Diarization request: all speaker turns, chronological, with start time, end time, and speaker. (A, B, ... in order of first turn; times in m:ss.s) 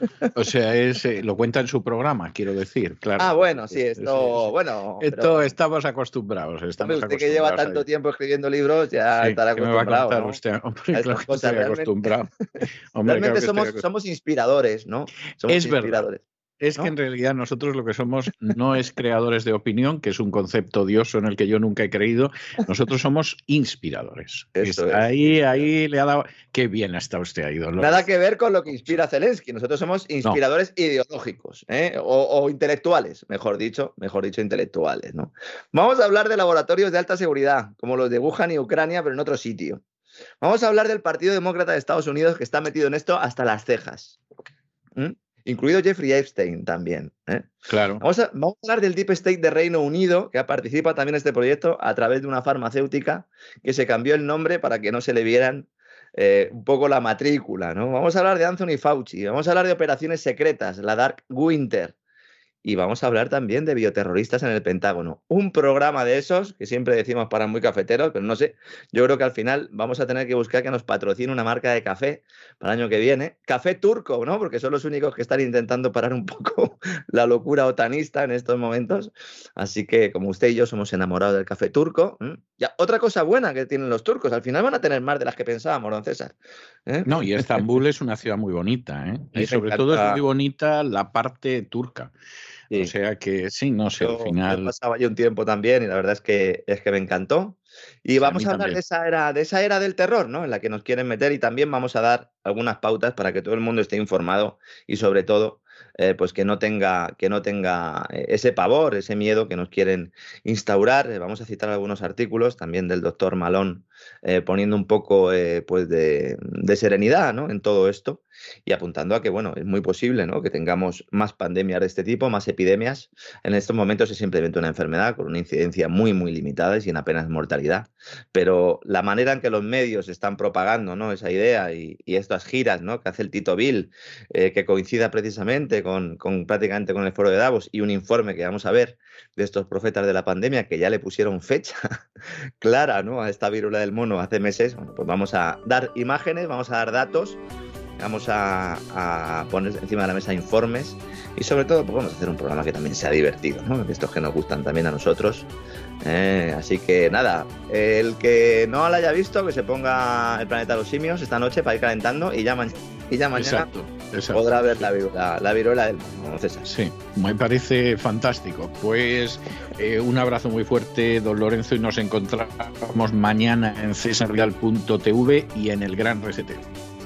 0:00.3-0:07.8 A
0:03.2-0:05.5 B
0:06.8-0:10.4 B
0:09.2-0:12.3 A
0:10.9-0:12.0 B
0:12.9-0:13.8 A
0:13.0-0:16.2 B
0:15.5-0:16.0 A
0:16.6-0:28.1 A
0:24.6-0:25.7 B
0:27.8-0:39.8 B
0:28.7-0:29.0 A
0:40.4-0:44.2 B
0:45.0-1:02.0 B
0:47.7-0:48.0 A
1:02.6-1:27.6 B
1:27.1-1:32.1 A
1:29.4-1:30.2 B
1:32.7-1:34.7 A
1:34.0-2:21.8 B
1:38.2-1:38.8 A
2:22.6-2:27.4 B
2:28.0-2:35.5 B
2:36.0-2:43.7 B
2:43.4-2:44.9 A
2:44.3-2:46.7 B
2:46.6-2:56.6 A